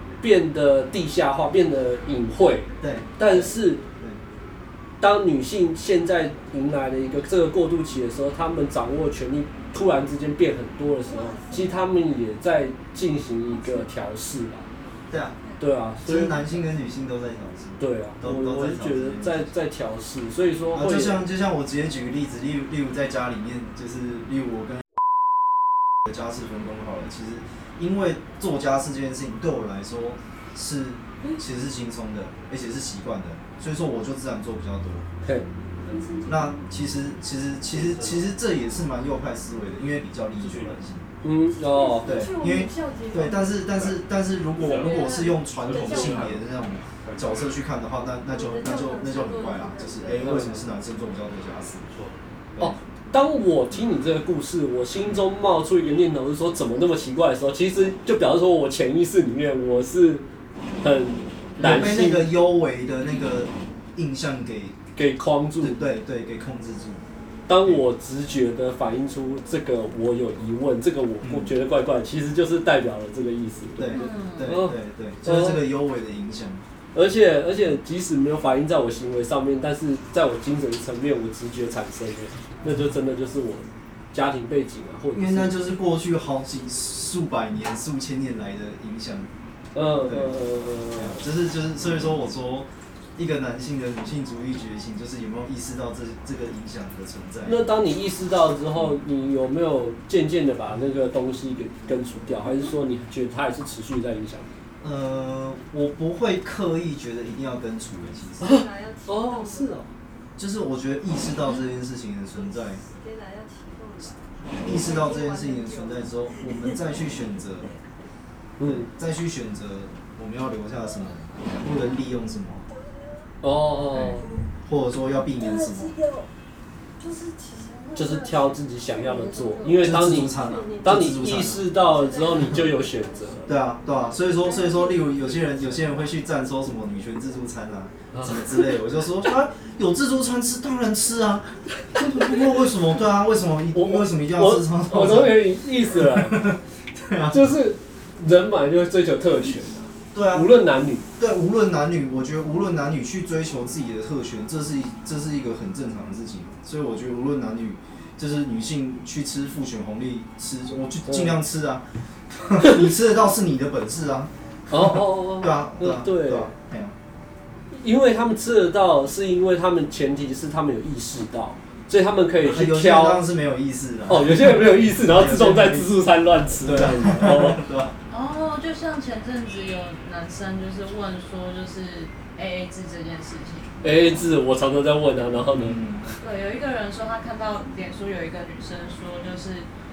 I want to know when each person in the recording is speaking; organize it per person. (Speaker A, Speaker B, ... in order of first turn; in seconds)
Speaker A: 0.2-3.8, 5.0-14.7, 15.6-16.6, 17.8-21.2, 41.2-42.3, 50.1-50.6, 52.6-60.2, 60.8-62.3, 65.0-65.9, 67.5-75.7, 76.9-85.6, 89.8-91.2, 97.5-104.5, 108.4-109.9, 118.6-118.9, 121.6-121.9, 123.4-124.2, 127.9-133.5, 138.1-138.6, 141.9-142.6, 143.7-146.5, 147.3-151.1, 161.1-161.4, 162.6-162.9, 164.7-166.5, 167.7-173.2, 174.1-177.6, 183.8-185.8
Speaker B: 2.8-4.2, 15.1-15.4, 16.0-19.5, 20.7-24.8, 26.1-35.1, 36.2-41.1, 42.0-51.9, 61.6-64.8, 65.6-67.0, 71.2-71.5, 73.8-76.6, 85.1-89.3, 89.9-90.4, 90.9-97.7, 104.8-108.6, 110.4-112.8, 114.5-117.7, 118.6-122.7, 124.7-126.0, 129.8-131.8, 133.5-147.5, 150.1-150.6, 151.2-166.9, 172.4-176.0, 176.6-178.0, 185.6-186.1
Speaker C: 11.4-11.7, 35.8-36.7, 41.6-43.8, 44.6-46.4, 48.3-50.6, 108.4-109.9, 112.3-116.8, 124.1-124.4, 125.1-126.3, 127.0-135.9
Speaker D: 37.7-38.4, 40.4-40.9, 43.7-44.0, 44.6-47.6, 51.9-52.2
Speaker E: 73.9-74.6, 178.1-183.7, 186.2-189.7